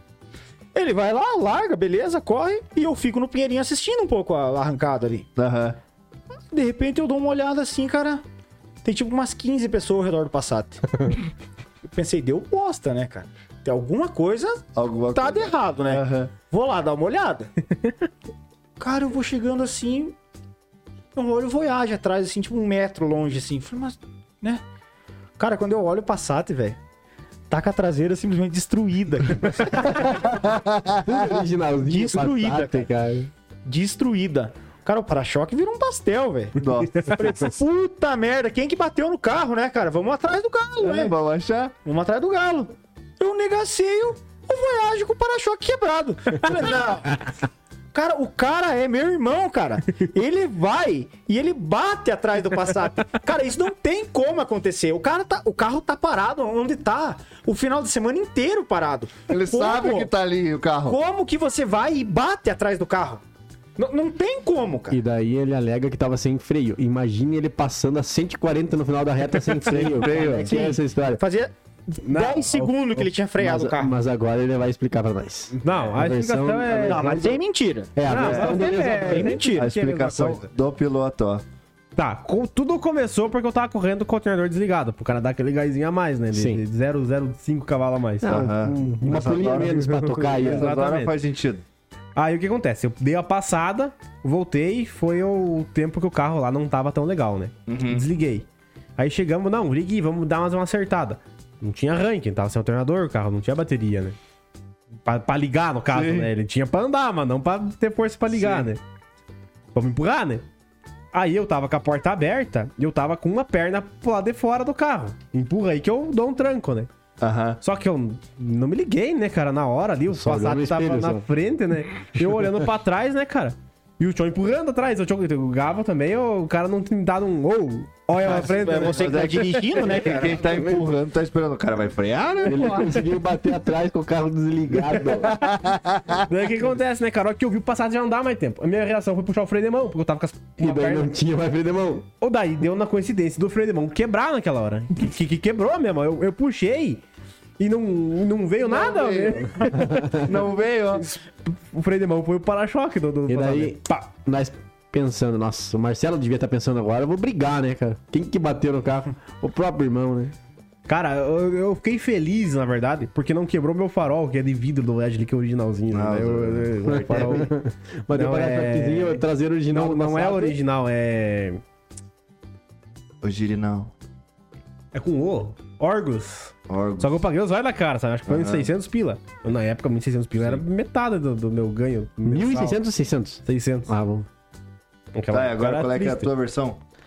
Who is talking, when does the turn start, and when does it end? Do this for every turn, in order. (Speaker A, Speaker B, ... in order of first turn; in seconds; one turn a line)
Speaker A: 0.7-5.3
Speaker B: 5.4-5.8
Speaker A: 6.5-8.2
Speaker A: 8.8-11.1
Speaker A: 11.9-17.5
Speaker B: 14.7-16.3
Speaker A: 18.8-20.1
Speaker A: 21.1-24.6
Speaker A: 25.4-26.8
Speaker A: 27.5-30.2
Speaker C: 29.9-30.3
Speaker B: 30.3-31.4
Speaker C: 30.9-33.3
Speaker A: 31.9-32.9
Speaker A: 33.6-41.1
Speaker B: 36.5-37.2
Speaker B: 40.8-41.7
Speaker A: 41.8-47.2
Speaker A: 47.9-60.1
Speaker B: 59.3-61.0
Speaker A: 60.9-63.2
Speaker A: 63.8-65.0
Speaker C: 64.9-71.2
Speaker B: 69.6-70.6
Speaker A: 70.2-74.0
Speaker D: 72.0-73.0
Speaker C: 73.4-77.4
Speaker D: 75.6-77.3
Speaker A: 76.8-80.1
Speaker C: 77.9-79.4
Speaker D: 78.0-80.4
Speaker B: 78.1-78.6
Speaker B: 79.5-81.4
Speaker D: 82.0-88.4
Speaker C: 86.3-86.6
Speaker C: 88.2-90.7
Speaker B: 88.2-91.6
Speaker D: 89.2-91.1
Speaker D: 92.2-98.5
Speaker B: 97.7-98.0
Speaker D: 99.0-104.2
Speaker D: 105.0-108.8
Speaker B: 105.9-106.3
Speaker B: 108.3-108.7
Speaker D: 109.7-110.4
Speaker D: 111.1-116.9
Speaker B: 117.2-117.6
Speaker D: 117.6-129.9
Speaker C: 120.1-121.2
Speaker C: 122.2-122.5
Speaker A: 128.2-130.6
Speaker B: 128.8-133.0
Speaker C: 132.4-135.4
Speaker B: 135.1-136.3
Speaker D: 136.2-141.1
Speaker C: 140.6-142.1
Speaker D: 142.2-147.0
Speaker D: 147.6-150.3
Speaker B: 148.6-151.2
Speaker D: 151.0-153.8
Speaker C: 153.3-160.3
Speaker D: 160.8-167.5
Speaker B: 165.9-167.0
Speaker C: 166.8-170.6
Speaker D: 168.1-171.6
Speaker B: 173.2-173.9
Speaker D: 174.9-182.8
Speaker B: 176.7-177.2
Speaker B: 178.3-178.7
Speaker C: 182.2-184.3
Speaker D: 183.4-183.9
Speaker D: 185.1-186.3
Speaker B: 185.3-186.8